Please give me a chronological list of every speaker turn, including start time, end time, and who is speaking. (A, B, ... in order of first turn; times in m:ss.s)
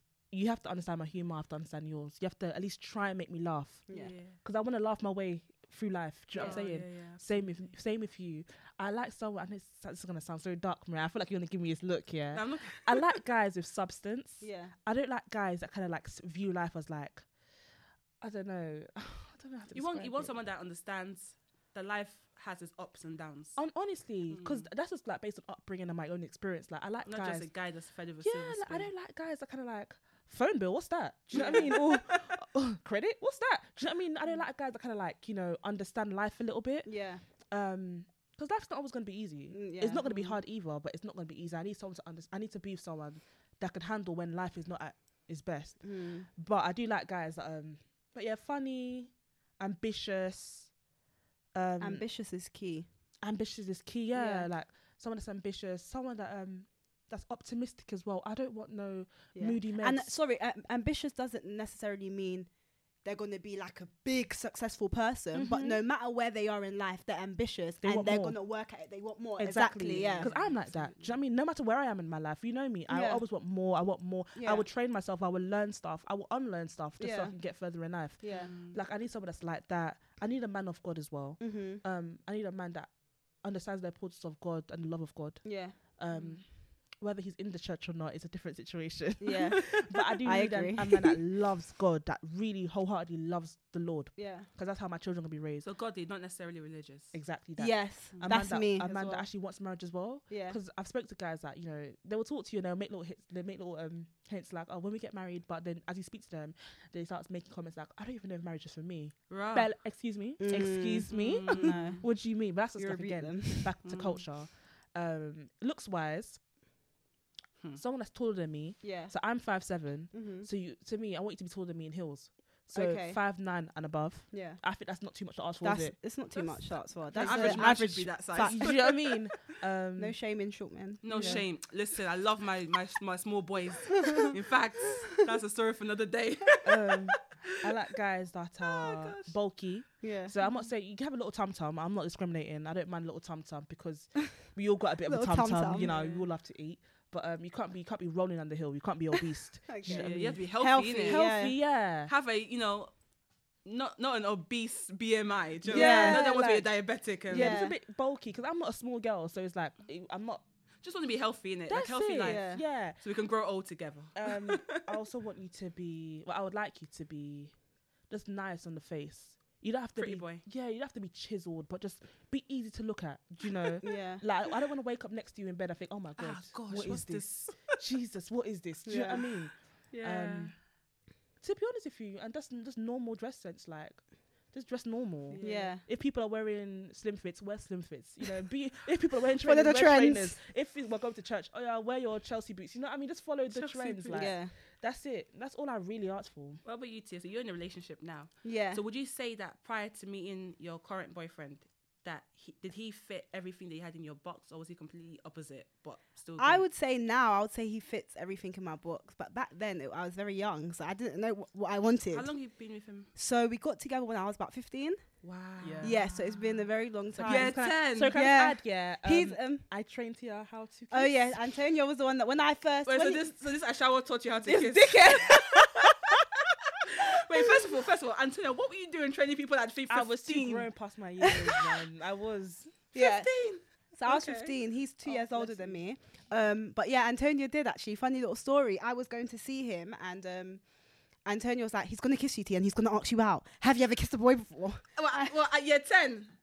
0:00.3-0:03.9 A
0:03.9-0:04.1 B
0:03.9-0:04.4 C
0:04.4-0:17.3 A
0:06.4-0:06.6 B
0:06.4-0:07.6 C
0:12.3-0:13.1 C
0:14.4-0:14.8 B
0:18.2-0:20.4 A
0:19.7-0:23.6 C
0:23.6-0:27.5 A
0:24.3-0:24.7 C
0:27.1-0:28.9 C
0:28.2-0:45.8 A
0:31.3-0:32.3 C
0:31.4-0:31.7 B
0:36.9-0:37.2 B
0:39.5-0:40.4 B
0:45.8-0:46.3 B
0:46.3-0:50.7 A
0:51.6-0:52.0 A
0:51.8-0:52.9 B
0:53.2-1:00.1 A
0:54.1-0:54.5 B
0:59.4-1:02.5 B
1:03.0-1:10.3 B
1:05.3-1:05.8 A
1:07.8-1:08.4 A
1:09.4-1:22.9 A
1:09.9-1:11.1 C
1:12.9-1:13.2 B
1:14.4-1:14.6 B
1:17.0-1:17.4 B
1:18.2-1:18.5 B
1:18.3-1:18.8 C
1:21.4-1:21.8 B
1:23.4-1:35.7 A
1:25.4-1:25.8 B
1:26.1-1:26.4 C
1:29.2-1:31.2 B
1:34.2-1:34.5 B
1:35.6-1:37.2 C
1:37.1-1:56.4 A
1:37.6-1:39.3 B
1:40.3-1:40.6 B
1:49.3-1:49.7 C
1:50.4-1:52.1 B
1:51.1-1:52.0 C
1:52.8-1:53.8 B
1:53.8-1:54.3 C
1:57.8-2:06.0 A
1:58.8-1:59.1 B
2:00.1-2:00.5 B
2:02.7-2:03.2 B
2:04.3-2:04.6 B
2:05.6-2:09.0 B
2:07.1-2:10.2 A
2:07.1-2:09.0 C
2:10.0-2:11.4 B
2:11.0-2:17.2 C
2:11.1-2:11.4 A
2:14.0-2:14.3 B
2:16.6-2:30.4 A
2:18.7-2:19.3 C
2:20.0-2:20.3 B
2:20.4-2:20.7 C
2:25.1-2:25.9 B
2:25.8-2:26.3 C
2:29.7-2:31.6 B
2:29.9-2:31.2 C
2:31.1-2:32.1 A
2:32.1-2:32.9 C
2:33.6-2:37.6 C
2:35.6-2:36.7 A
2:35.7-2:36.3 B
2:37.3-2:40.4 A
2:37.3-2:37.7 B
2:40.8-2:44.8 C
2:41.7-2:43.0 A
2:42.2-2:42.6 B
2:44.2-2:47.6 A
2:48.1-3:00.6 A
2:50.0-2:50.4 C
2:53.8-2:54.2 B
2:56.2-2:57.8 C
2:58.9-2:59.3 B
2:59.9-3:00.5 C
3:01.4-3:16.6 A
3:05.3-3:05.8 C
3:05.4-3:05.8 B
3:09.4-3:10.4 B
3:13.5-3:14.3 C
3:14.1-3:14.5 B
3:16.6-3:26.6 C
3:18.4-3:18.8 B
3:26.4-3:32.3 B
3:32.1-3:33.1 C
3:33.2-3:35.0 B
3:35.2-3:36.6 C
3:35.6-3:36.0 A
3:35.8-3:39.6 B
3:37.2-3:41.4 A
3:37.2-3:38.2 C
3:40.9-3:43.3 B
3:42.9-3:46.3 C
3:44.5-3:45.9 A
3:46.9-3:50.7 C
3:49.9-3:52.8 A
3:51.2-3:51.6 B
3:52.9-3:53.3 B
3:52.9-3:54.5 C
3:54.0-4:00.6 B
3:55.1-3:55.8 A
4:01.2-4:05.4 B
4:05.0-4:06.3 C